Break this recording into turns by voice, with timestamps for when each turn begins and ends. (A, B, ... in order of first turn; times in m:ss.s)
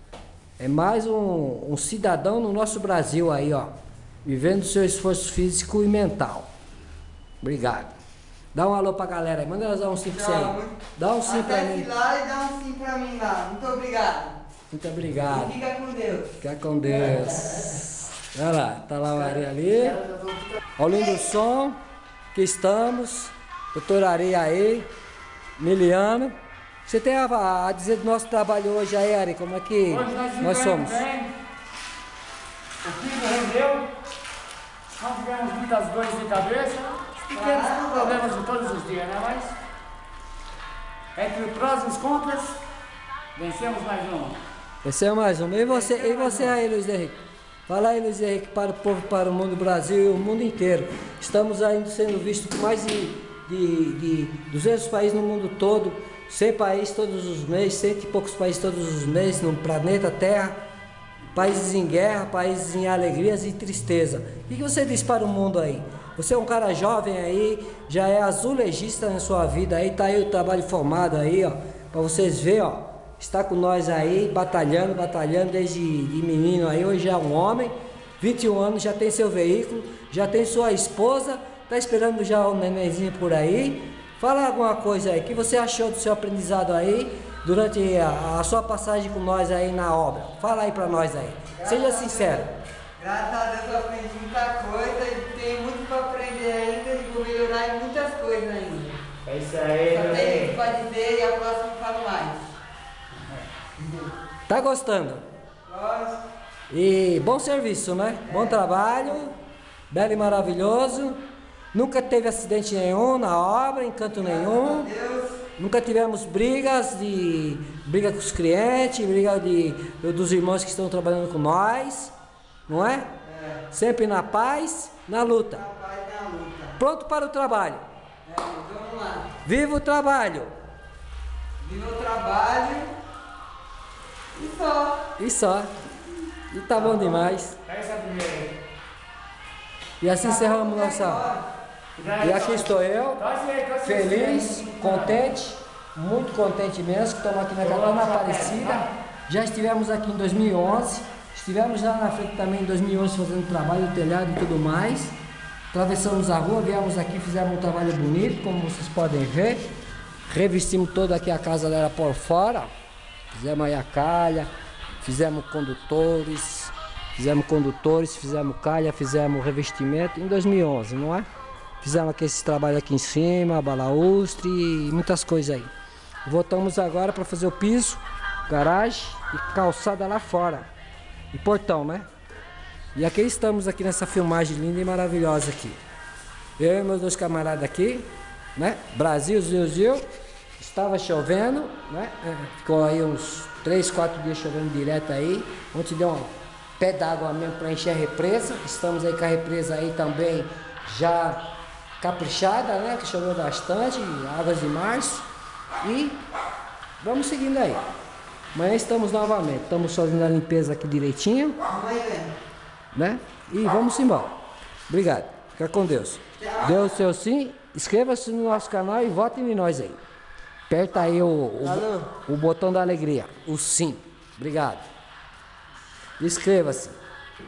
0:00.6-0:03.7 A
0:04.2-0:06.5 A
0:07.4-0:07.9 A
0:08.5-0:11.9 A
0:10.1-0:14.4 B
0:14.7-0:15.6 A
0:15.3-0:16.3 B
0:16.4-0:20.0 A
0:20.1-0:20.6 C
0:20.8-0:21.8 A
0:22.3-0:24.9 A
0:25.6-0:26.4 A
0:26.9-0:31.1 A
0:29.9-0:31.4 C
0:32.8-0:33.9 C
0:35.0-0:39.6 C
0:37.3-0:38.2 B
0:41.2-0:42.6 C
0:43.4-0:44.4 C
0:44.8-1:00.6 A
0:45.7-0:46.5 C
1:01.3-1:32.5 A
1:31.6-1:39.0 B
1:39.2-1:40.6 C
1:39.9-1:42.5 B
1:44.5-1:45.3 A
1:45.7-1:46.2 B
1:46.7-1:49.4 A
1:48.3-1:48.8 B
1:49.9-1:51.2 A
1:51.7-1:54.9 A
1:54.2-1:55.4 B
1:55.6-2:02.1 A
2:02.7-2:03.1 A
2:03.2-2:03.6 B
2:03.7-2:05.7 A
2:05.5-2:06.8 B
2:06.8-2:07.8 A
2:08.2-2:09.4 B
2:09.4-2:10.5 A
2:11.6-2:12.9 B
2:14.3-2:15.1 B
2:15.2-2:15.7 A
2:16.5-2:17.6 A
2:16.8-2:17.0 C
2:17.6-2:18.6 C
2:20.0-2:21.3 A
2:20.2-2:21.5 B
2:22.0-2:25.2 C
2:22.2-2:23.2 A
2:23.8-2:35.2 A
2:27.6-2:28.9 C
2:35.7-2:39.7 A
2:40.3-2:42.7 A
2:43.3-2:44.5 A
2:45.0-2:51.3 A
2:51.8-2:55.7 A
2:56.2-3:00.7 A
3:01.3-3:02.1 A
3:03.0-3:05.8 A
3:06.6-3:10.1 A
3:10.6-3:21.4 A
3:22.0-3:25.2 A
3:25.8-3:26.2 A
3:27.0-3:27.8 A
3:28.5-3:31.6 A
3:31.7-3:32.4 B
3:32.9-3:34.4 A
3:34.9-3:40.0 A
3:36.4-3:36.8 B
3:40.7-3:44.8 A
3:41.6-3:42.1 B
3:46.2-3:47.0 A